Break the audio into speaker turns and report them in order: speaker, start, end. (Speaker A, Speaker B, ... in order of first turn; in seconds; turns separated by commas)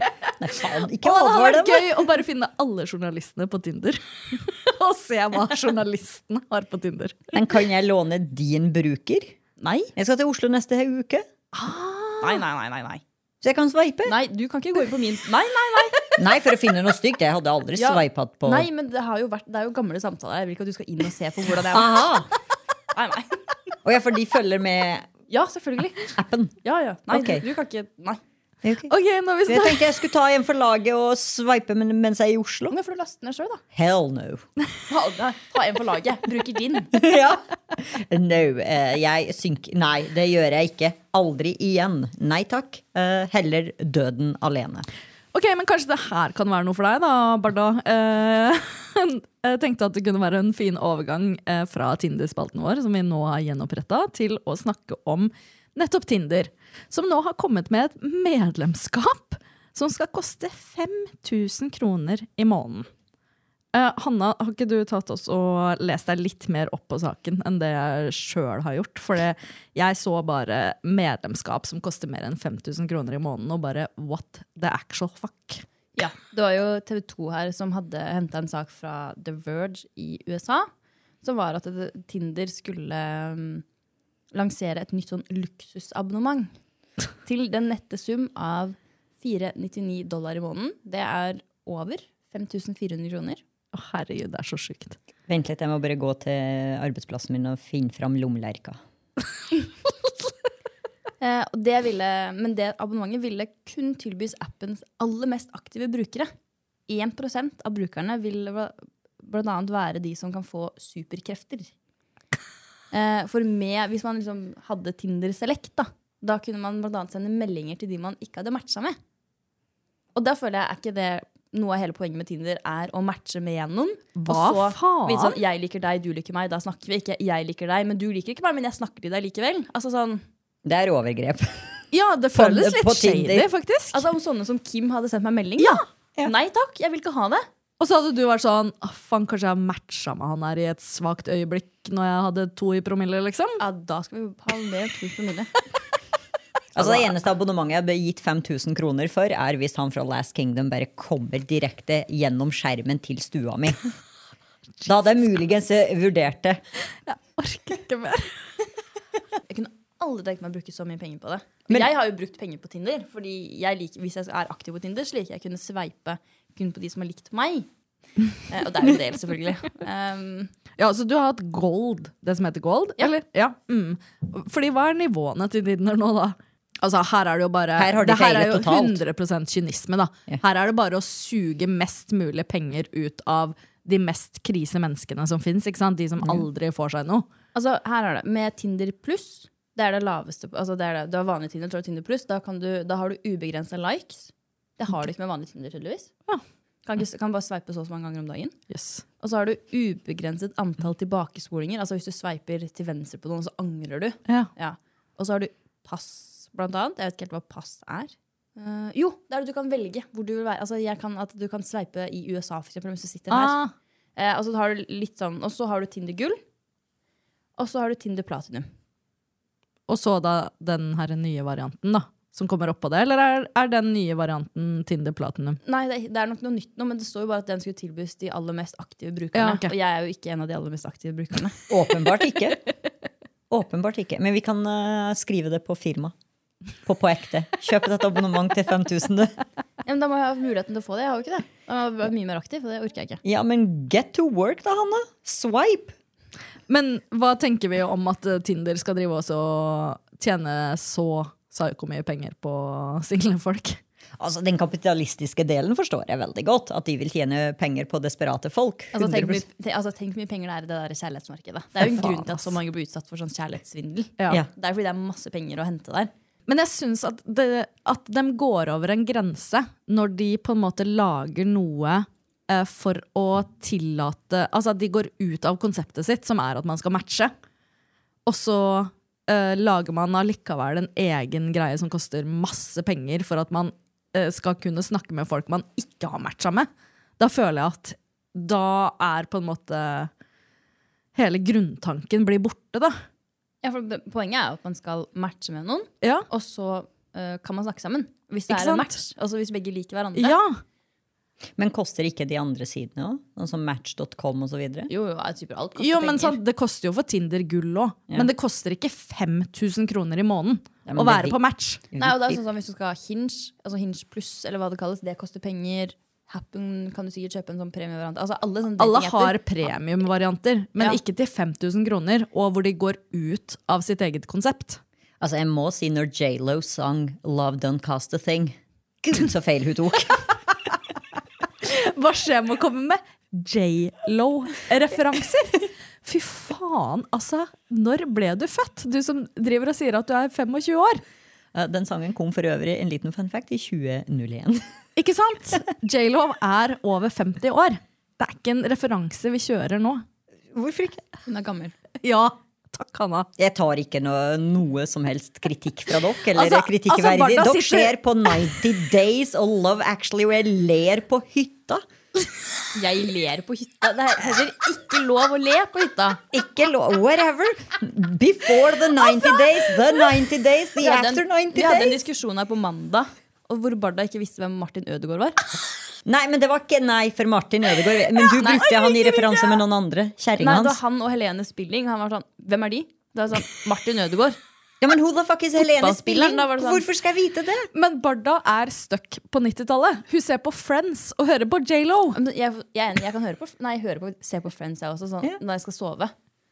Speaker A: 0.4-2.0, Speaker B: 1.0-7.3, Speaker A: 7.3-9.3, Speaker C: 9.6-9.9, Speaker A: 9.9-11.2, Speaker B: 11.5-12.4, Speaker C: 12.2-13.0, Speaker A: 13.4-14.2, Speaker C: 14.1-16.1, Speaker A: 16.2-18.7, Speaker C: 17.8-22.1, Speaker A: 21.7-22.3, Speaker C: 22.9-23.4, Speaker A: 23.8-25.1, Speaker C: 25.3-26.1, Speaker A: 26.2-26.6, Speaker C: 26.6-28.2, Speaker A: 27.1-27.4, Speaker A: 28.6-28.9, Speaker B: 28.9-29.8, Speaker A: 29.5-32.8, Speaker C: 32.7-33.6, Speaker A: 33.7-34.5, Speaker C: 34.9-36.9, Speaker A: 36.9-44.9, Speaker B: 45.3-62.9, Speaker B: 63.7-75.6, Speaker C: 76.0-80.7, Speaker C: 81.2-83.6, Speaker C: 84.3-86.5, Speaker C: 87.2-93.4, Speaker B: 93.7-95.0, Speaker A: 95.3-98.8, Speaker C: 101.2-106.3, Speaker C: 106.9-111.7, Speaker C: 112.9-119.0, Speaker C: 120.2-130.2, Speaker B: 124.2-125.4, Speaker A: 130.7-131.8, Speaker B: 131.9-134.1, Speaker A: 132.3-133.5, Speaker C: 133.9-137.4, Speaker B: 137.8-143.6, Speaker C: 143.6-145.5, Speaker A: 146.8-153.8, Speaker C: 146.8-147.1, Speaker A: 154.8-156.6, Speaker B: 157.1-158.3, Speaker C: 159.5-167.7, Speaker C: 168.5-170.5, Speaker B: 170.8-187.3, Speaker A: 177.8-179.0, Speaker C: 187.6-196.1, Speaker C: 196.9-198.6, Speaker B: 198.7-199.0, Speaker C: 199.2-213.6, Speaker B: 213.3-213.7, Speaker C: 214.2-216.4, Speaker C: 217.6-218.7, Speaker B: 219.9-225.6, Speaker C: 225.6-231.6, Speaker B: 229.3-229.7, Speaker A: 231.7-232.6, Speaker A: 233.5-236.1, Speaker A: 236.8-239.4, Speaker C: 239.8-243.2, Speaker A: 243.2-245.9, Speaker B: 246.7-253.8, Speaker A: 254.2-259.4, Speaker C: 258.9-266.1, Speaker B: 261.8-262.4, Speaker B: 266.5-277.3, Speaker B: 278.3-286.7, Speaker B: 287.2-290.1, Speaker B: 291.1-292.9, Speaker C: 293.6-300.4, Speaker B: 298.5-298.9, Speaker B: 300.2-300.6, Speaker A: 301.6-304.9, Speaker C: 304.9-306.4, Speaker B: 305.8-311.8, Speaker A: 310.9-311.4, Speaker A: 311.9-312.4, Speaker C: 312.0-319.4, Speaker B: 318.8-324.8, Speaker A: 325.2-330.4, Speaker B: 331.6-341.0, Speaker A: 341.5-344.6, Speaker B: 345.0-350.0, Speaker A: 350.5-351.0, Speaker C: 351.3-351.8, Speaker B: 352.0-353.3, Speaker A: 353.4-361.8, Speaker B: 356.4-358.0, Speaker C: 362.8-366.2, Speaker A: 366.3-372.0, Speaker C: 370.8-375.4, Speaker A: 376.1-380.8, Speaker C: 378.4-378.7, Speaker B: 378.4-379.5, Speaker C: 380.4-384.4, Speaker A: 384.8-387.7, Speaker C: 385.6-386.9, Speaker B: 387.7-392.2, Speaker C: 392.1-396.1